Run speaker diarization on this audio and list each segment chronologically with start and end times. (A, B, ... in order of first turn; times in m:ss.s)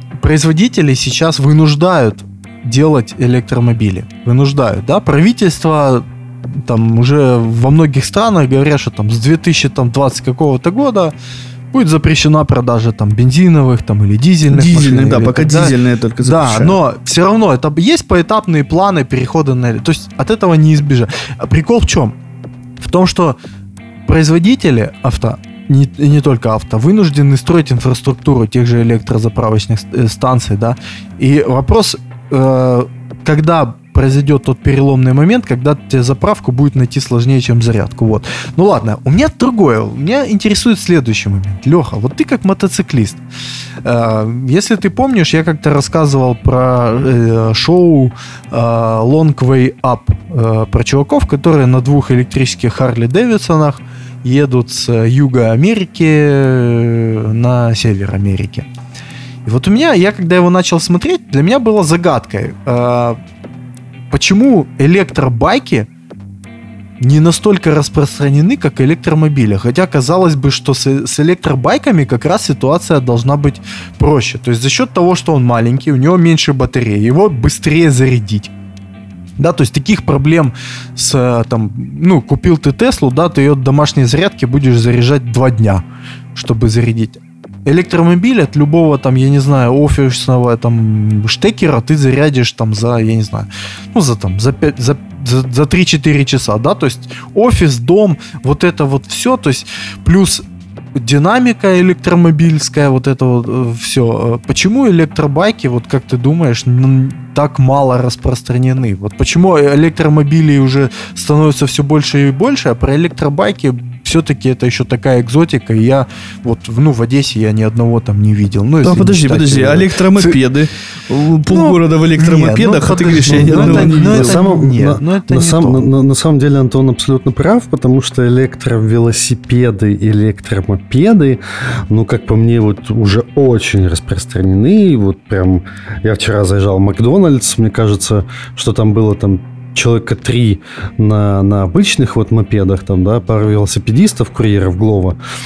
0:00.2-0:11.1 A
0:11.7-0:22.2 A
0:14.5-0:16.8 B
0:22.8-0:23.4 A
0:24.1-0:43.2 A
0:43.8-0:58.7 A
0:59.4-1:03.2 A
1:04.1-1:05.9 A
1:07.0-1:18.5 A
1:19.4-1:25.8 A
1:26.3-1:40.4 A
1:41.0-2:00.4 A
1:58.8-2:04.4 B
2:01.5-2:05.8 A
2:03.6-2:25.2 C